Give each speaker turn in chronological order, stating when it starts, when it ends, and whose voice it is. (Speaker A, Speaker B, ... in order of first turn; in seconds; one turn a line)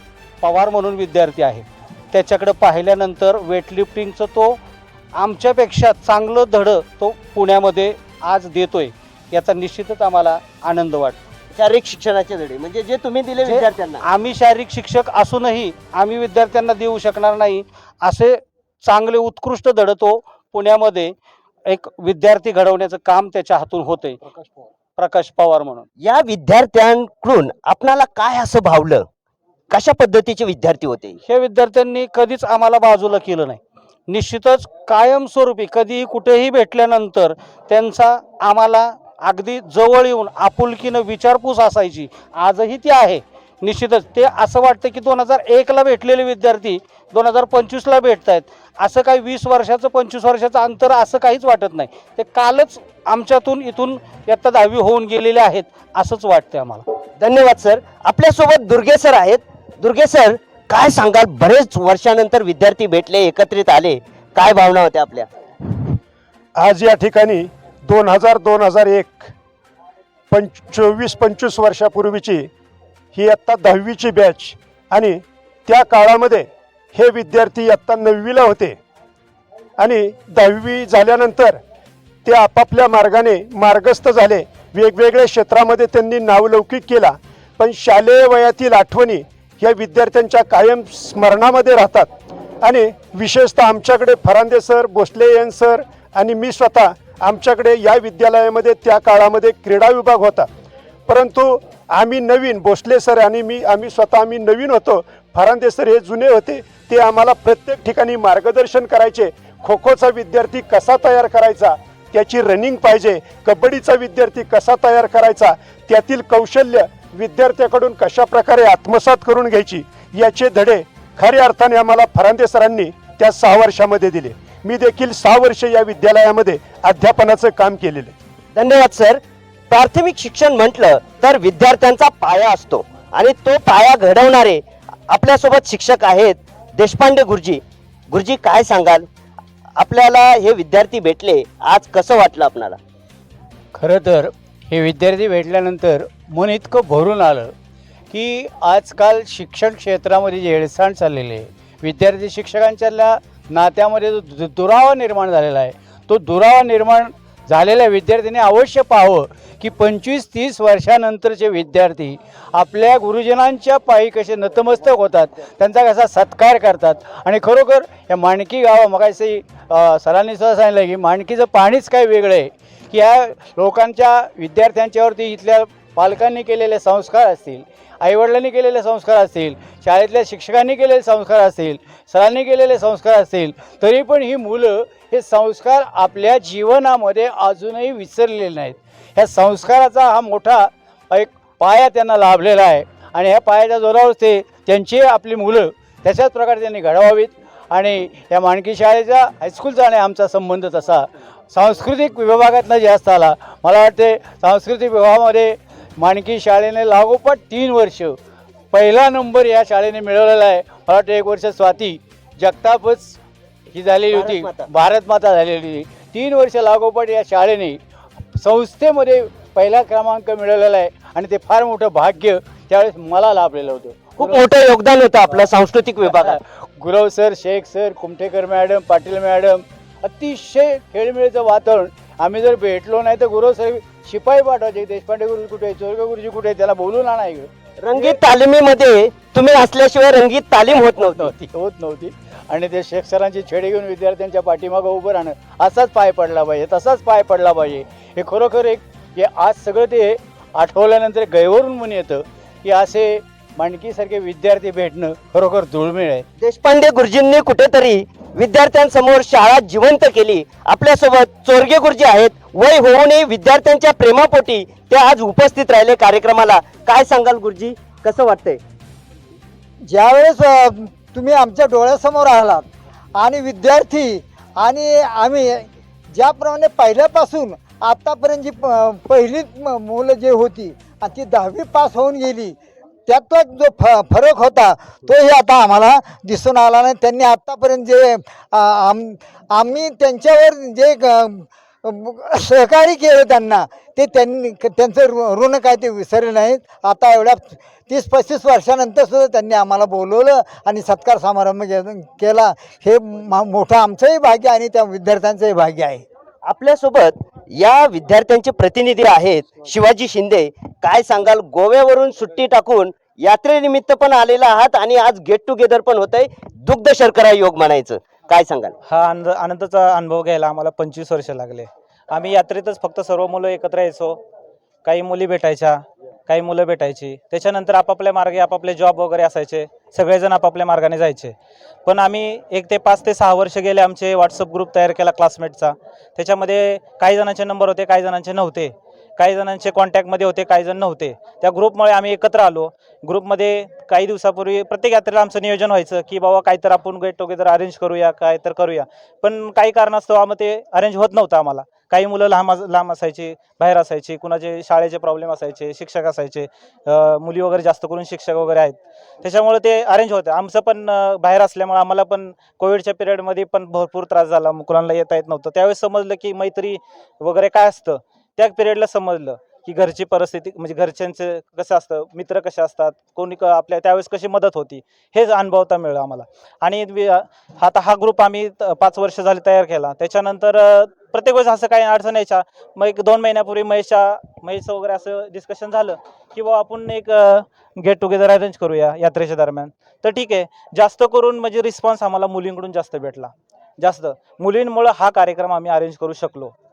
Speaker A: 0.4-4.6
Speaker A: 5.1-11.2
Speaker B: 11.5-14.0
Speaker A: 13.4-21.1
Speaker A: 21.6-24.2
Speaker A: 24.9-25.8
Speaker B: 26.0-29.1
Speaker B: 29.7-31.2
Speaker A: 31.2-56.8
Speaker B: 57.2-65.3
Speaker C: 66.5-69.3
Speaker C: 70.3-72.5
Speaker C: 73.1-78.8
Speaker C: 79.8-81.6
Speaker C: 82.2-92.1
Speaker C: 92.6-100.5
Speaker C: 101.1-128.1
Speaker B: 128.5-139.1
Speaker B: 139.8-142.8
Speaker D: 143.7-147.5
Speaker D: 148.1-208.2
Speaker D: 208.7-213.2
Speaker D: 213.7-217.8
Speaker B: 214.1-214.7
Speaker D: 218.3-224.5
Speaker B: 224.2-226.4
Speaker D: 226.0-238.2
Speaker B: 237.8-241.3
Speaker D: 240.9-256.2
Speaker B: 256.4-268.6
Speaker E: 269.8-272.6
Speaker E: 273.2-282.6
Speaker E: 283.1-306.0
Speaker B: 306.4-318.7
Speaker F: 318.9-324.2
Speaker F: 324.8-396.5